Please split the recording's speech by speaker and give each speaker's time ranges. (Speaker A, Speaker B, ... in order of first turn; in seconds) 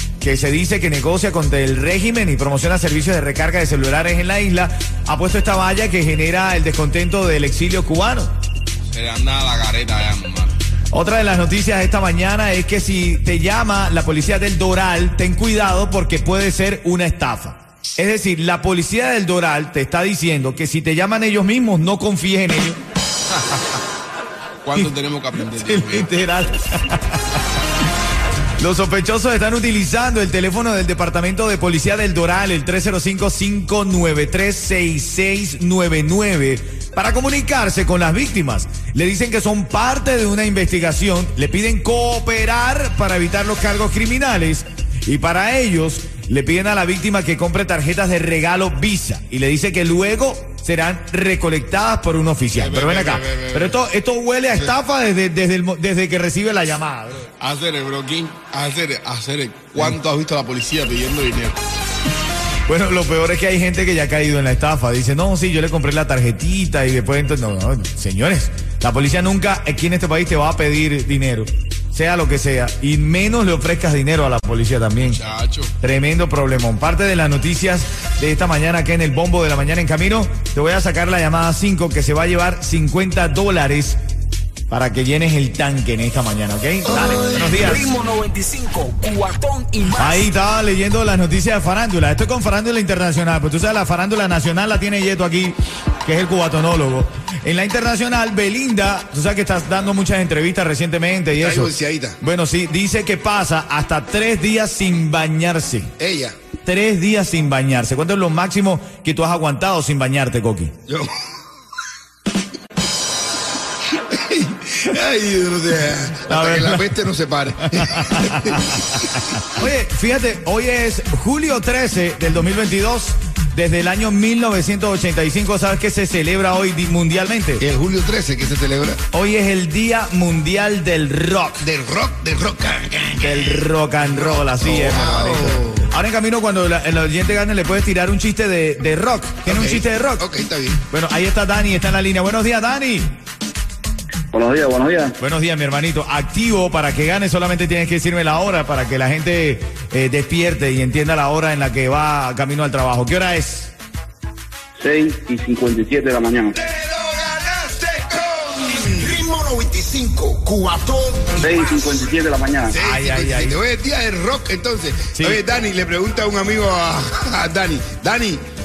Speaker A: 0.2-8.3, 10.9-22.8, 25.5-27.4, 28.6-57.3, 62.7-75.2, 75.8-84.0, 84.7-87.9, 89.9-105.9, 106.6-110.8, 116.2-116.9, 117.7-127.6, 129.1-131.7, 133.2-140.2, 140.9-143.2, 145.2-153.7, 162.8-163.6, 165.1-165.4
Speaker B: 8.9-10.6, 24.6-26.1, 52.5-53.8, 57.4-61.6, 75.0-75.7
Speaker C: 86.8-87.8, 101.3-102.2, 106.0-106.3, 110.9-111.1, 114.0-119.4, 127.6-129.0, 131.6-135.9, 139.4-140.8, 156.6-161.5, 162.7-168.4
Speaker D: 87.6-90.3
Speaker E: 144.3-145.2, 154.8-156.6, 161.3-162.7